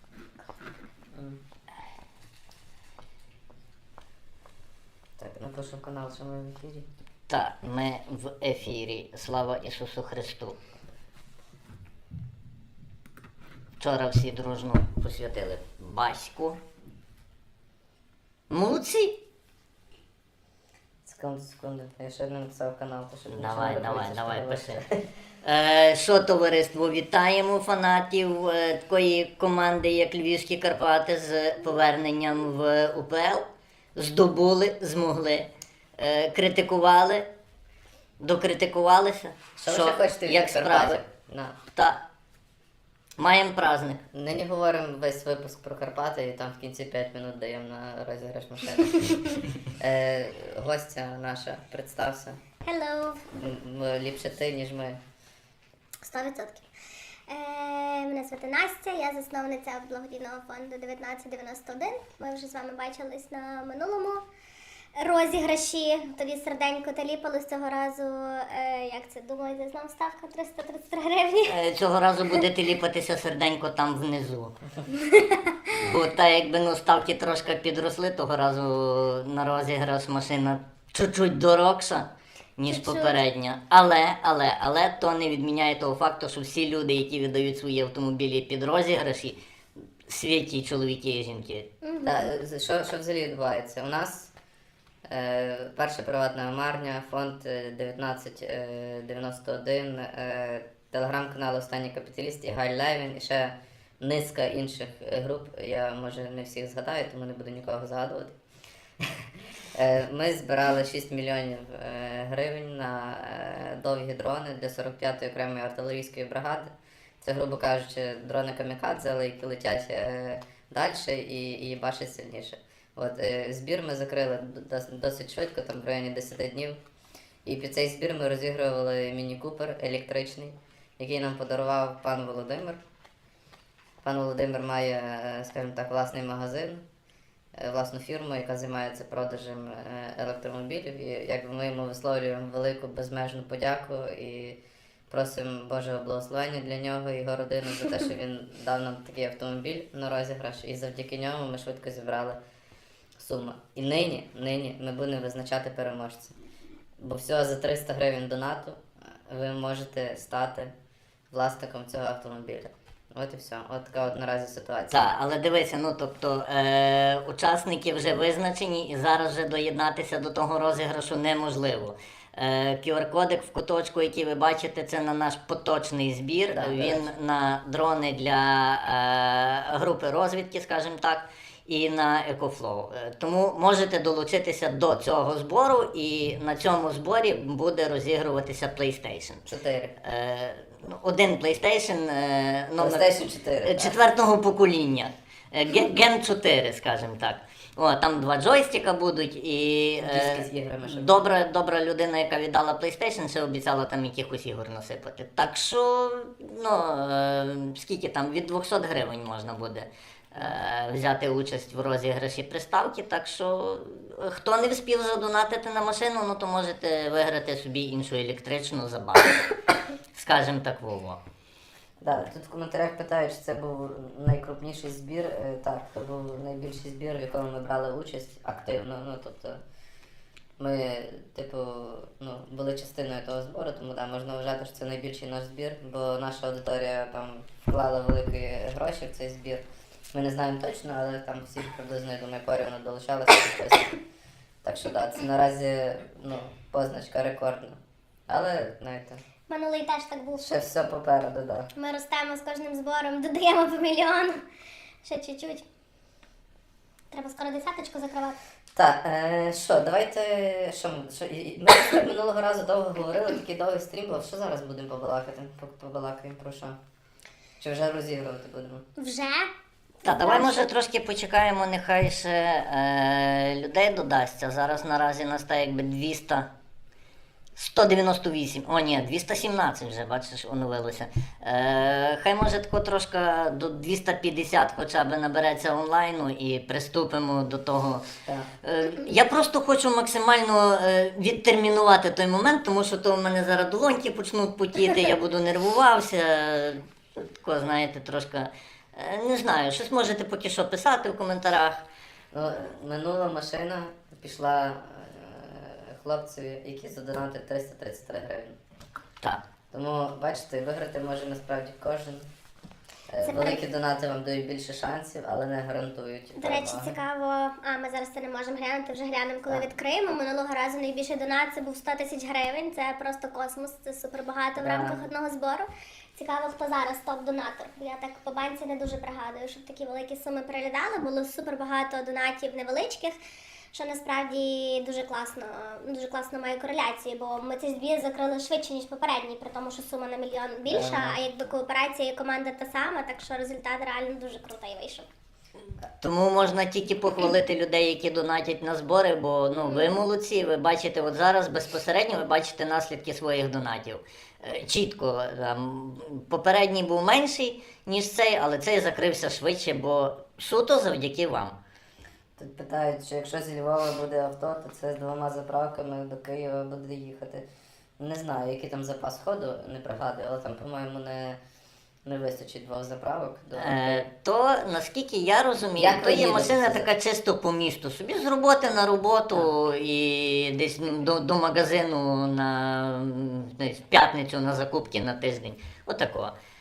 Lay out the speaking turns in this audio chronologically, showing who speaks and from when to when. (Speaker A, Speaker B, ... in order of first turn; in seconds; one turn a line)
Speaker A: 1.1-1.4
Speaker A: 5.2-6.8
Speaker B: 7.3-10.6
Speaker B: 13.8-16.6
Speaker B: 18.5-19.2
Speaker A: 21.0-25.0
Speaker B: 23.3-24.8
Speaker B: 25.4-33.4
Speaker B: 34.0-37.3
Speaker B: 38.2-41.0
Speaker A: 39.6-41.5
Speaker B: 41.7-42.0
Speaker B: 43.2-44.0
Speaker A: 44.1-52.4
Speaker C: 52.6-53.2
Speaker A: 53.4-55.0
Speaker C: 56.0-56.6
Speaker C: 57.3-64.2
Speaker C: 65.0-71.6
Speaker B: 71.5-74.5
Speaker C: 74.9-75.8
Speaker B: 75.8-89.4
Speaker C: 82.7-83.2
Speaker B: 90.1-91.7
Speaker C: 91.8-92.3
Speaker A: 92.0-94.3
Speaker A: 95.1-108.4
Speaker A: 109.2-126.8
Speaker A: 127.5-132.8
Speaker A: 134.0-136.8
Speaker A: 137.6-152.4
Speaker A: 153.2-156.3
Speaker A: 157.0-160.7
Speaker A: 161.3-165.1
Speaker B: 164.9-189.4
Speaker A: 176.5-177.0
Speaker A: 189.5-189.9
Speaker B: 190.0-219.4
Speaker A: 192.8-193.9
Speaker A: 200.0-201.2
Speaker B: 220.1-221.2
Speaker A: 222.0-229.6
Speaker A: 230.6-244.0
Speaker A: 244.6-249.2
Speaker C: 249.5-250.6
Speaker A: 250.4-251.7
Speaker C: 251.7-254.4
Speaker C: 255.0-255.6
Speaker C: 257.1-258.4
Speaker A: 258.7-266.8
Speaker A: 267.6-268.8
Speaker C: 269.0-269.5
Speaker C: 270.0-270.7
Speaker B: 270.0-276.5
Speaker B: 277.6-288.0
Speaker B: 288.6-301.8
Speaker A: 302.3-308.6
Speaker A: 309.7-312.2
Speaker A: 313.1-316.9
Speaker C: 313.2-313.6
Speaker C: 316.4-333.1
Speaker A: 324.6-325.0
Speaker C: 333.7-345.1
Speaker A: 340.7-341.2
Speaker B: 346.0-361.6
Speaker C: 349.5-350.0
Speaker A: 362.4-367.4
Speaker A: 368.0-371.4
Speaker A: 372.0-374.1
Speaker B: 373.6-386.3
Speaker A: 375.8-376.9